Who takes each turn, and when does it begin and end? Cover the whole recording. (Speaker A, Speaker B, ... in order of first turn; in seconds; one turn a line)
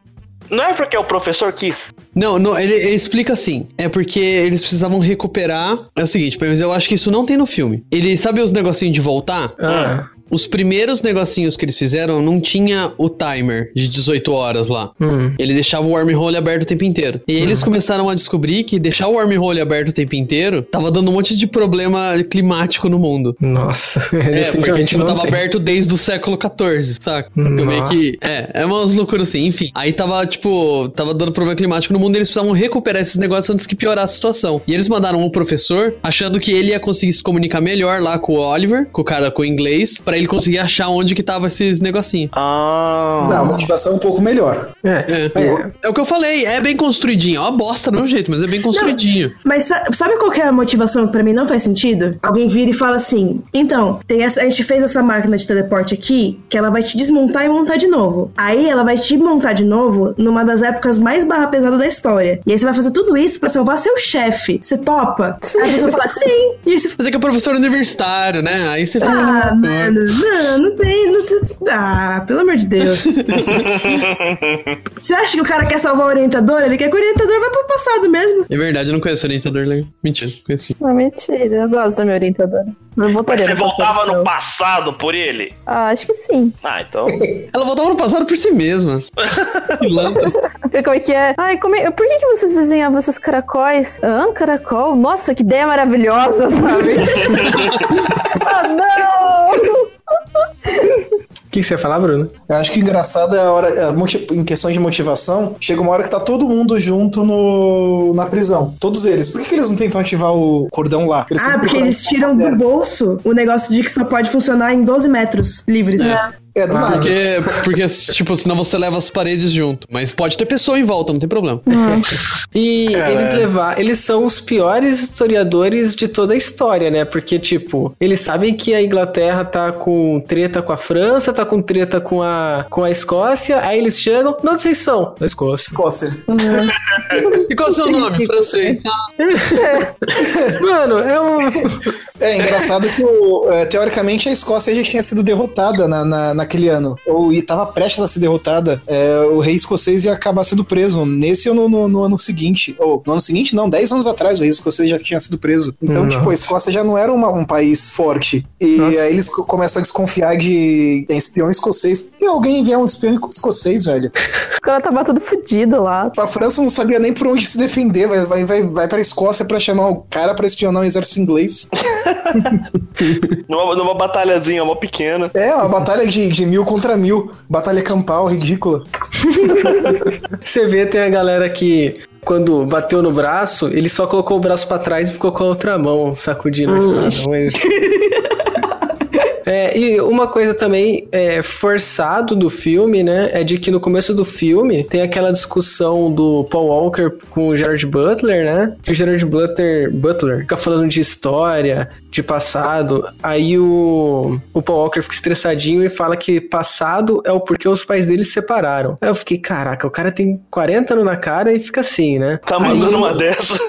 Speaker A: 0.5-1.9
Speaker B: 2.1-9.6
Speaker C: 9.6-10.1
Speaker A: 9.7-9.9
Speaker B: 10.1-23.4
Speaker C: 15.0-15.4
Speaker C: 17.4-17.7
Speaker C: 23.4-25.4
Speaker B: 24.3-42.3
Speaker C: 27.4-28.0
Speaker A: 42.3-43.6
Speaker D: 43.2-44.7
Speaker C: 44.8-45.7
Speaker B: 45.1-49.3
Speaker E: 48.7-67.0
Speaker F: 65.5-66.0
Speaker B: 67.0-70.2
Speaker F: 69.0-69.4
Speaker E: 69.0-73.8
Speaker B: 73.1-73.6
Speaker A: 73.4-74.8
Speaker E: 75.0-78.5
Speaker B: 78.5-80.8
Speaker F: 80.8-84.3
Speaker A: 83.2-85.5
Speaker F: 85.7-86.6
Speaker A: 86.6-87.2
Speaker B: 87.5-89.1
Speaker A: 89.2-89.9
Speaker B: 89.8-90.4
Speaker F: 90.2-97.6
Speaker A: 97.2-97.7
Speaker B: 97.5-97.9
Speaker F: 98.3-99.9
Speaker F: 100.7-101.0
Speaker C: 101.5-102.3
Speaker D: 102.5-112.6
Speaker E: 111.4-116.2
Speaker D: 116.5-117.2
Speaker C: 116.7-117.6
Speaker B: 116.8-122.2
Speaker F: 121.7-122.1
Speaker C: 122.5-135.8
Speaker D: 122.9-123.5
Speaker D: 135.7-136.7
Speaker F: 136.3-138.8
Speaker B: 137.5-139.1
Speaker C: 139.2-141.9
Speaker F: 139.6-139.9
Speaker D: 140.2-140.6
Speaker D: 142.2-164.1
Speaker C: 155.9-156.5
Speaker C: 158.8-159.1
Speaker F: 164.6-166.1
Speaker D: 166.1-171.7
Speaker A: 171.8-172.6
Speaker A: 173.5-175.3
Speaker D: 175.3-178.9
Speaker C: 179.3-179.7
Speaker C: 180.4-187.8
Speaker B: 186.7-187.2
Speaker E: 187.7-188.2
Speaker C: 189.4-213.2
Speaker A: 212.5-213.6